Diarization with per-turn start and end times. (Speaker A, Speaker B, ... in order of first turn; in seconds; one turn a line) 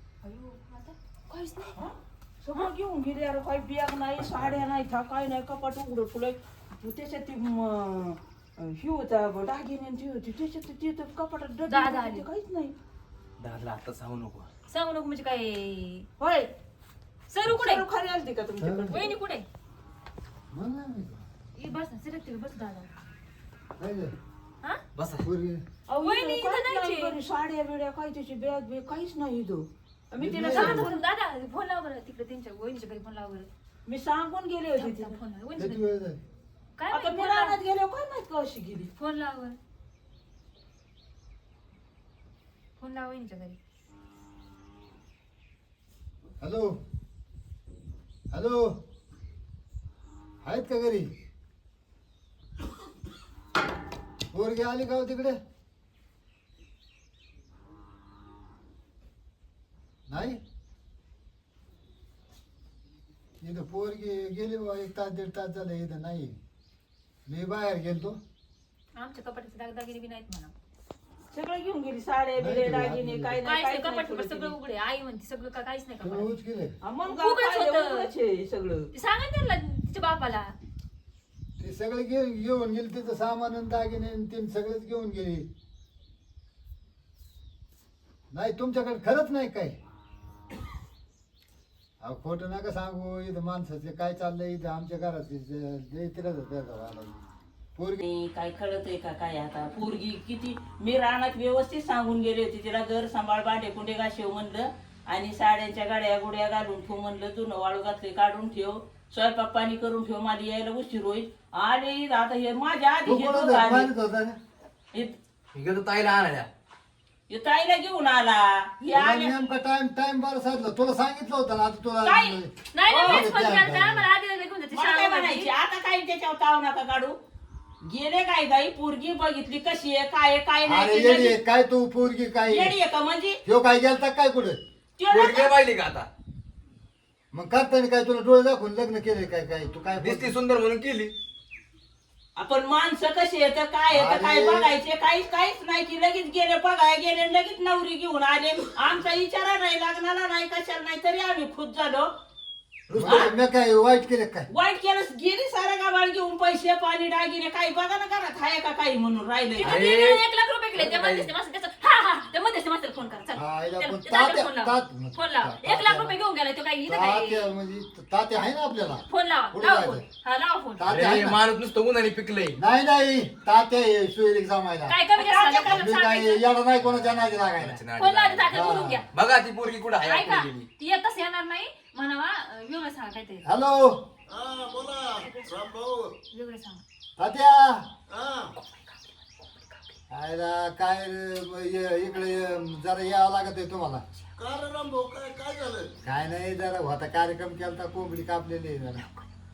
Speaker A: 0.2-1.8
Speaker B: 1.7-12.7
Speaker A: 11.7-12.2
Speaker C: 13.4-14.5
Speaker A: 14.7-16.1
Speaker B: 16.2-16.5
Speaker A: 17.3-17.8
Speaker B: 17.4-19.1
Speaker D: 18.6-19.0
Speaker A: 18.9-19.4
Speaker D: 20.5-21.2
Speaker A: 21.6-22.9
Speaker D: 23.8-24.1
Speaker C: 24.9-25.2
Speaker D: 25.2-25.6
Speaker B: 25.9-30.9
Speaker A: 26.0-27.1
Speaker D: 30.2-30.9
Speaker A: 30.5-33.5
Speaker B: 33.9-35.1
Speaker A: 34.8-35.8
Speaker D: 35.6-36.2
Speaker A: 36.8-37.6
Speaker B: 36.9-38.9
Speaker A: 39.0-39.6
Speaker A: 42.8-43.6
Speaker D: 46.4-46.8
Speaker D: 48.3-48.7
Speaker D: 50.4-51.1
Speaker D: 54.3-55.4
Speaker D: 60.1-60.4
Speaker D: 63.4-66.3
Speaker D: 67.3-68.2
Speaker A: 68.9-70.5
Speaker B: 71.3-74.5
Speaker D: 72.4-73.4
Speaker A: 73.4-76.3
Speaker D: 76.0-76.8
Speaker B: 76.8-78.9
Speaker A: 77.0-78.1
Speaker A: 78.9-80.5
Speaker D: 81.6-85.5
Speaker D: 88.3-89.8
Speaker D: 92.0-98.0
Speaker B: 98.0-113.9
Speaker D: 113.0-114.4
Speaker C: 115.5-116.5
Speaker B: 117.3-119.3
Speaker D: 118.9-122.5
Speaker A: 122.0-125.5
Speaker B: 122.9-123.3
Speaker D: 123.0-124.1
Speaker B: 124.7-127.2
Speaker B: 127.8-131.4
Speaker D: 130.6-132.8
Speaker B: 132.5-133.4
Speaker D: 133.4-134.6
Speaker B: 135.0-135.6
Speaker C: 135.1-136.1
Speaker D: 137.3-140.3
Speaker C: 140.0-141.1
Speaker B: 142.4-152.1
Speaker D: 143.9-144.7
Speaker D: 152.9-154.5
Speaker B: 153.1-153.3
Speaker B: 154.5-159.8
Speaker A: 159.6-167.5
Speaker C: 159.6-160.2
Speaker C: 160.7-161.3
Speaker D: 163.3-166.2
Speaker D: 166.9-170.0
Speaker A: 169.1-170.8
Speaker D: 170.8-171.4
Speaker C: 170.8-172.6
Speaker D: 172.5-175.0
Speaker A: 174.9-176.4
Speaker B: 175.2-175.8
Speaker D: 175.6-177.8
Speaker C: 176.8-178.6
Speaker A: 178.0-179.1
Speaker D: 178.5-179.0
Speaker C: 179.1-180.7
Speaker A: 180.0-183.4
Speaker D: 183.4-184.0
Speaker E: 184.3-186.1
Speaker A: 185.2-185.5
Speaker A: 186.3-186.8
Speaker D: 187.2-187.9
Speaker E: 188.1-188.5
Speaker A: 188.6-189.0
Speaker D: 190.1-194.0
Speaker E: 194.4-195.9
Speaker D: 196.0-199.1